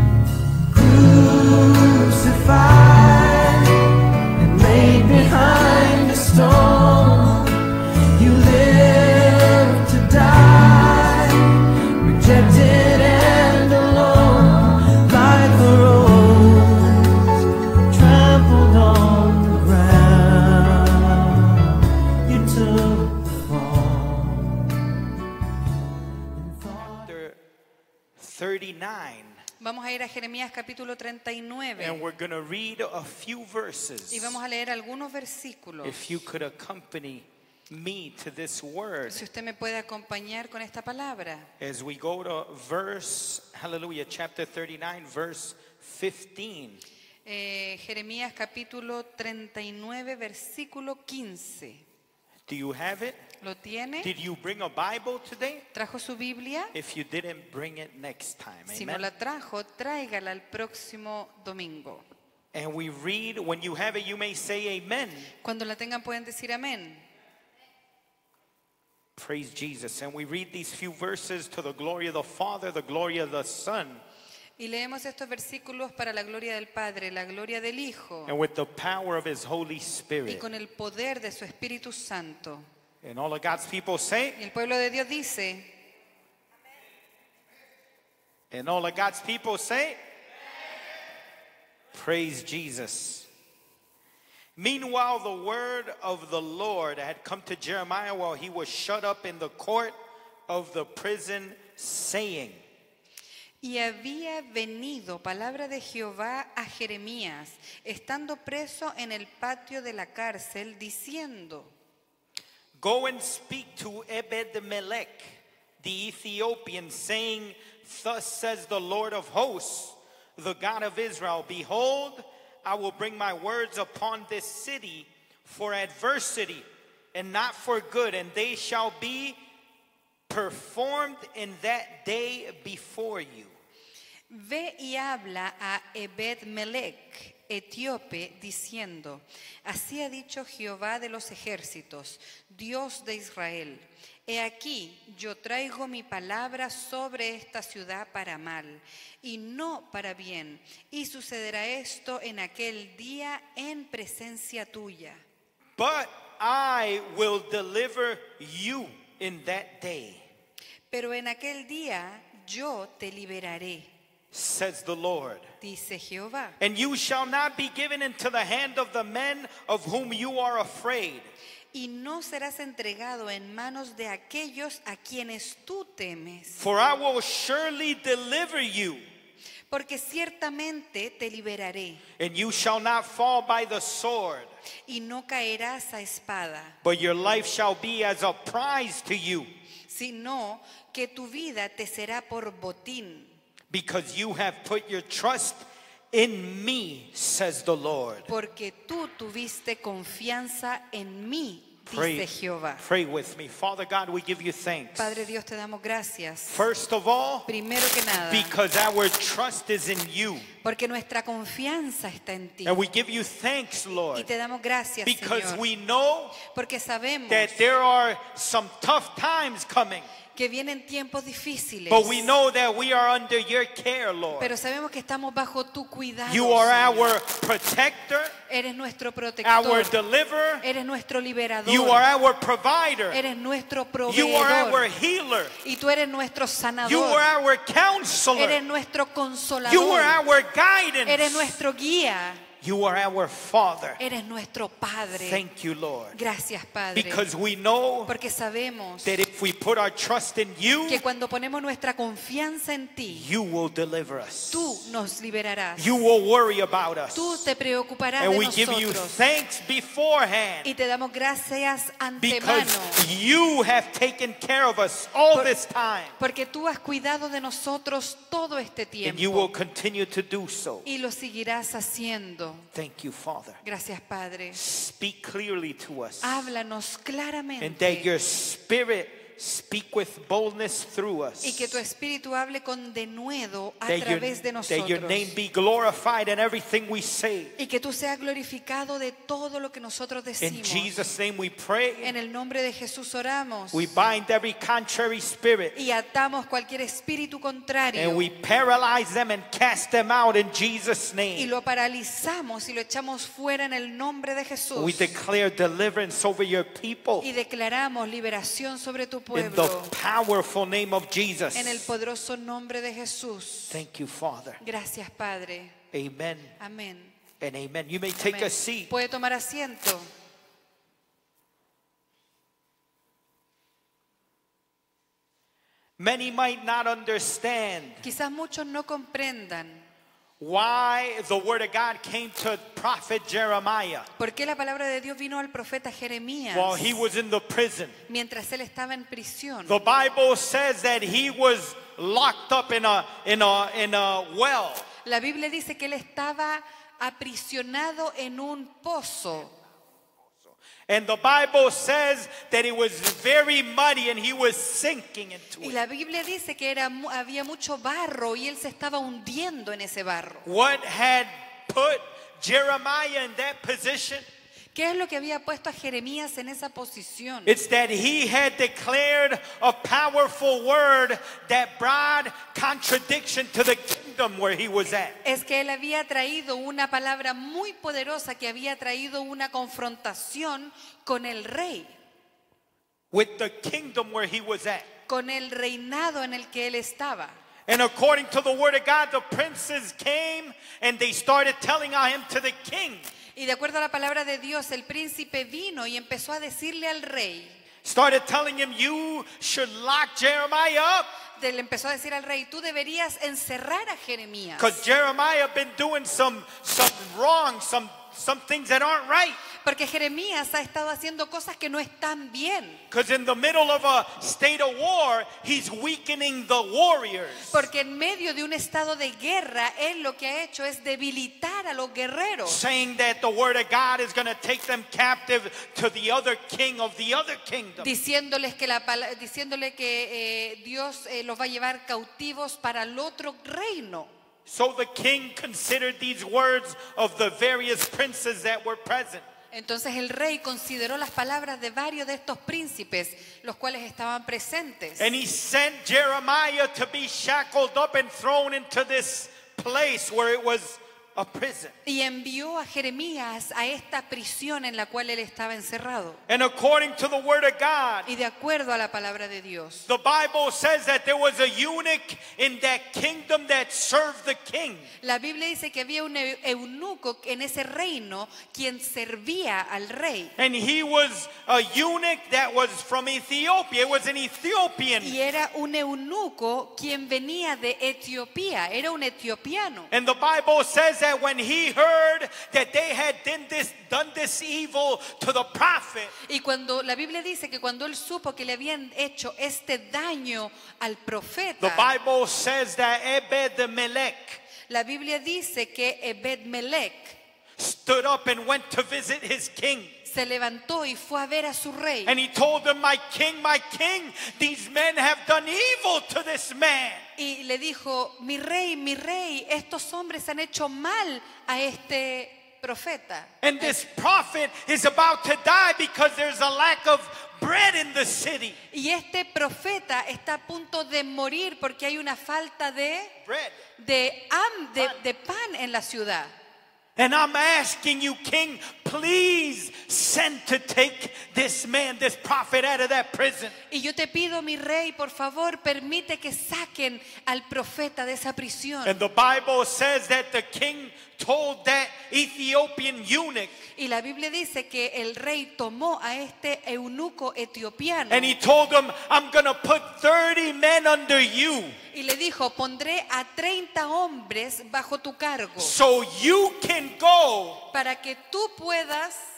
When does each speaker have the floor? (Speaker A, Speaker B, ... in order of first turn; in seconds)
Speaker A: 0.7-24.8, 26.4-27.4, 28.2-29.4, 31.8-34.4, 35.8-39.2, 41.6-46.8, 52.5-53.2, 54.0-55.6, 56.7-59.1, 62.5-65.3, 69.2-74.0, 78.2-80.4, 83.0-84.4, 88.5-90.0, 91.9-93.3, 94.5-99.9, 100.5-102.6, 112.8-129.4, 130.3-133.5, 155.8-160.2, 164.3-165.4, 166.6-171.3, 176.6-179.0, 182.2-184.5, 186.8-189.5, 193.7-198.3, 201.9-205.3, 206.5-207.5, 208.1-210.5, 212.6-214.3, 215.0-216.4, 217.3-220.1, 221.9-224.5, 226.3-228.3, 229.4-230.6, 231.6-233.2, 234.1-235.5, 236.8-238.6, 239.6-241.6, 242.6-244.0, 245.1-246.2, 246.9-248.1, 249.0-251.0, 253.1-254.8, 255.8-257.4, 258.2-260.7, 262.2-266.1, 269.0-270.8, 272.7-273.6, 274.5-276.4, 277.6-281.8, 283.9-287.5, 290.4-292.1, 293.7-295.7, 297.9-301.5, 304.8-307.3, 309.3-311.9, 313.7-314.6, 315.9-316.5, 317.4-318.9, 326.0-328.0, 330.4-334.1, 336.5-337.9, 339.7-344.9, 350.9-355.8, 360.4-364.2, 367.4-375.2, 383.1-384.9, 387.7-393.1, 397.8-401.1, 404.6-409.4, 412.9-417.6, 422.4-427.9, 434.4-439.2, 445.0-451.7, 456.3-458.1, 459.9-464.9, 470.4-475.1, 479.9-486.1, 491.6-494.4, 497.6-499.9, 502.1-507.0, 513.4-518.6, 523.2-523.6, 527.0-533.5, 538.8-543.6, 548.1-551.8, 555.6-557.6
Speaker B: 29.6-32.0, 34.1-36.0, 39.1-41.5, 47.2-51.8, 53.4-54.1, 55.7-56.7, 58.7-62.0, 65.4-67.0, 74.6-78.4, 80.3-82.7, 84.3-85.7, 103.6-111.7, 134.3-155.2, 160.9-163.9, 165.6-166.6, 171.7-176.6, 179.7-182.0, 184.9-186.7, 189.9-193.3, 198.3-202.8, 205.0-206.6, 207.4-208.5, 210.6-212.8, 214.1-215.6, 216.4-217.6, 220.3-222.3, 224.4-227.1, 228.5-229.9, 230.6-232.0, 233.1-234.9, 235.6-237.2, 238.3-240.2, 241.1-242.4, 244.0-245.4, 246.1-247.3, 248.1-249.2, 250.9-253.3, 254.5-256.0, 257.1-259.2, 260.6-263.0, 266.2-269.5, 270.8-272.7, 273.6-274.6, 276.2-278.1, 281.4-285.3, 287.6-291.0, 292.0-293.9, 295.7-298.3, 301.3-305.1, 307.2-309.9, 311.5-313.8, 314.6-315.8, 316.6-317.1, 318.2-320.1, 328.0-329.9, 334.2-337.0, 338.1-339.8, 345.0-349.5, 355.6-360.5, 364.7-367.5, 375.2-381.9, 385.1-387.4, 393.4-397.6, 401.4-404.8, 409.6-412.8, 417.5-422.6, 427.8-434.1, 439.5-445.1, 451.8-456.2, 458.1-459.9, 465.0-470.3, 475.0-479.9, 486.2-491.9, 494.7-497.2, 500.1-502.1, 507.2-513.8, 518.7-523.1, 523.8-526.3, 533.7-539.0, 543.8-548.4, 551.9-555.8, 557.7-559.2